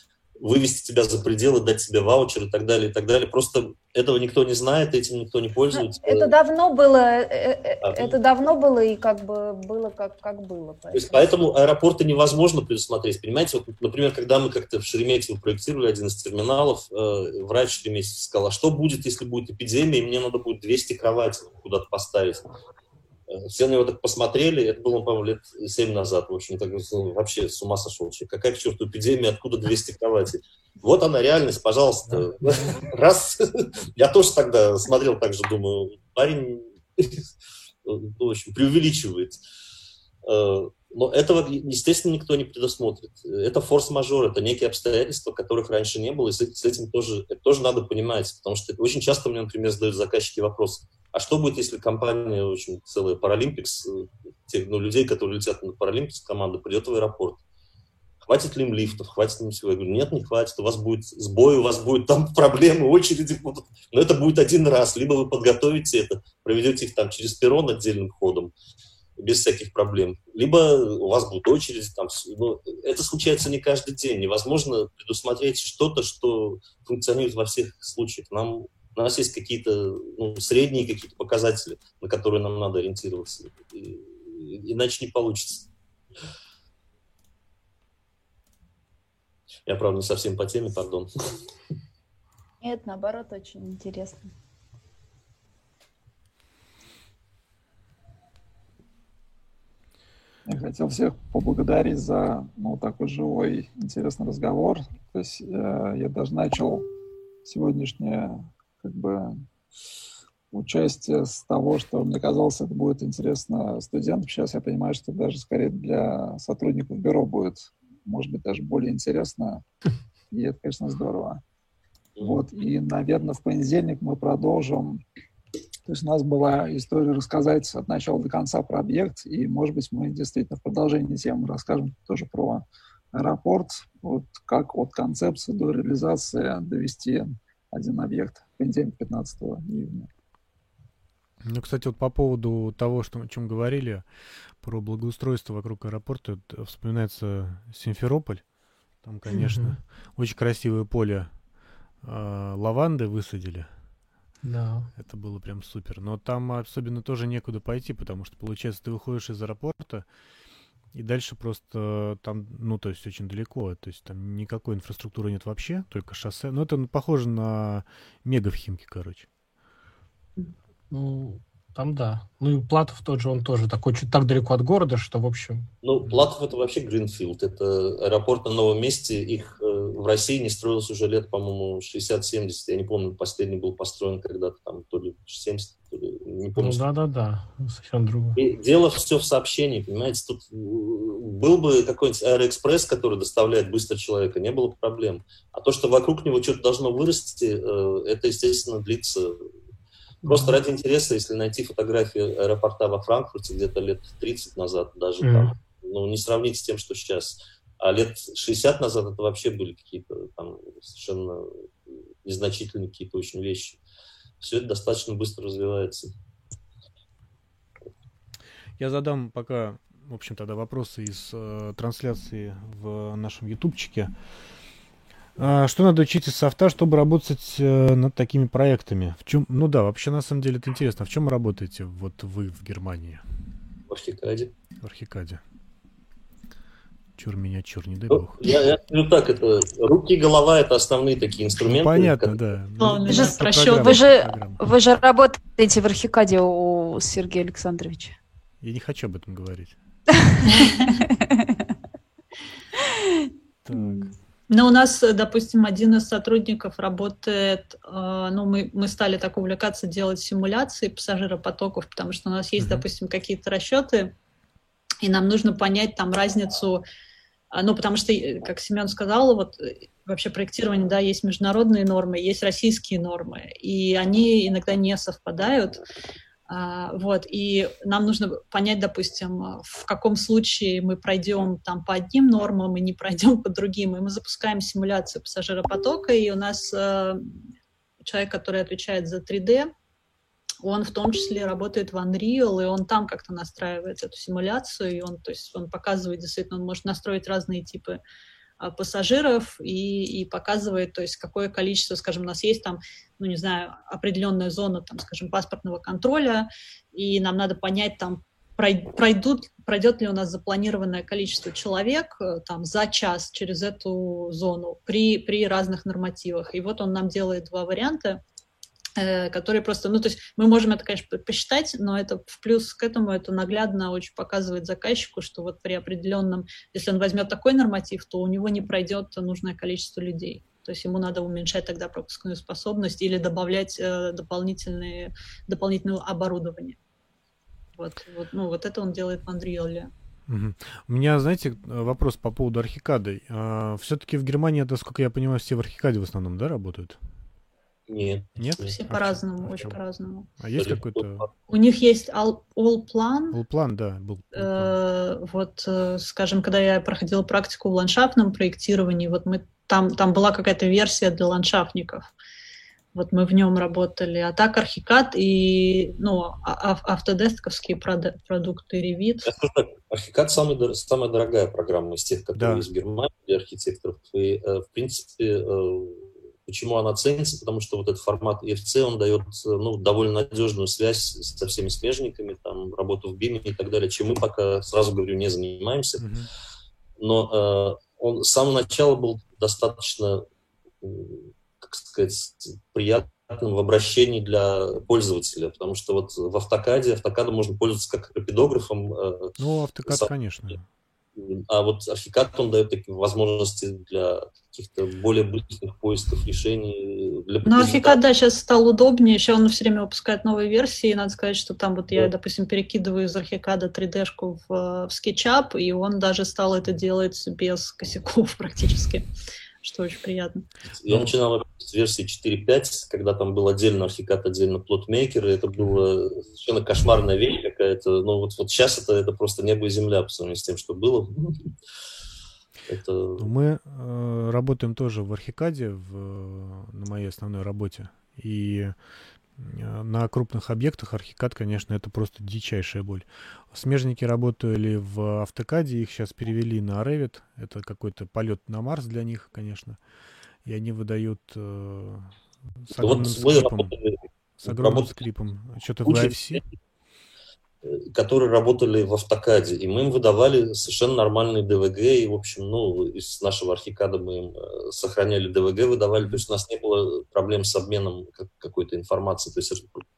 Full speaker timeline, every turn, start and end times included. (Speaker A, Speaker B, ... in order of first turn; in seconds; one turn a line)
Speaker A: 0.4-6.3
Speaker B: 5.7-11.3
Speaker A: 7.8-8.2
Speaker A: 10.9-22.5
Speaker A: 23.3-37.3
Speaker C: 32.2-32.7
Speaker A: 37.9-39.4
Speaker A: 40.2-57.4
Speaker A: 58.2-68.5
Speaker A: 69.2-85.7
Speaker A: 89.7-91.1
Speaker B: 92.6-94.3
Speaker D: 100.5-106.8
Speaker D: 107.4-109.3
Speaker D: 110.5-119.6
Speaker D: 120.3-121.4
Speaker A: 122.2-122.4
Speaker D: 122.2-125.0
Speaker D: 125.8-140.1
Speaker E: 141.4-144.1
Speaker E: 144.6-148.5
Speaker E: 149.0-151.3
Speaker C: 149.3-149.8
Speaker E: 152.0-153.7
Speaker C: 154.4-154.9
Speaker E: 154.9-160.1
Speaker E: 160.9-169.3
Speaker C: 170.9-175.7
Speaker A: 175.8-186.8
Speaker C: 186.6-188.4
Speaker A: 188.3-199.5
Speaker C: 200.2-200.5
Speaker A: 200.2-213.8
Speaker C: 205.2-205.6
Speaker A: 214.4-216.1
Speaker E: 218.8-224.1
Speaker E: 225.4-233.2
Speaker A: 233.9-234.5
Speaker E: 234.8-235.4
Speaker E: 237.2-238.6
Speaker A: 238.1-242.4
Speaker E: 241.6-244.6
Speaker F: 242.8-244.1
Speaker B: 243.1-248.2
Speaker E: 248.6-249.8
Speaker F: 250.6-250.9
Speaker B: 251.0-251.6
Speaker E: 253.6-254.1
Speaker B: 253.7-254.1
Speaker F: 254.5-264.1
Speaker E: 262.6-262.9
Speaker F: 265.0-266.8
Speaker F: 267.5-275.8
Speaker F: 276.5-287.4
Speaker F: 288.0-289.7
Speaker F: 290.6-298.0
Speaker F: 298.6-318.2
Speaker F: 319.0-336.8
Speaker F: 337.8-339.9
Speaker E: 340.3-347.0
Speaker A: 347.9-348.7
Speaker E: 348.4-349.8
Speaker F: 348.6-350.3
Speaker E: 350.4-351.3
Speaker A: 350.6-351.3
Speaker F: 351.5-353.4
Speaker E: 353.3-354.8
Speaker F: 354.4-362.1
Speaker F: 362.9-369.3
Speaker A: 369.2-386.1
Speaker E: 372.4-372.6
Speaker E: 386.0-386.3
Speaker A: 387.0-390.2
Speaker A: 390.8-400.6
Speaker E: 399.4-400.6
Speaker A: 401.1-408.0
Speaker F: 407.4-419.1
Speaker F: 419.6-420.4
Speaker A: 420.8-431.5
Speaker A: 432.7-433.3
Speaker E: 433.2-438.8
Speaker E: 439.4-449.8
Speaker E: 450.4-453.8
Speaker A: 452.8-454.9
Speaker E: 454.4-456.4
Speaker A: 455.8-456.5
Speaker A: 457.6-469.9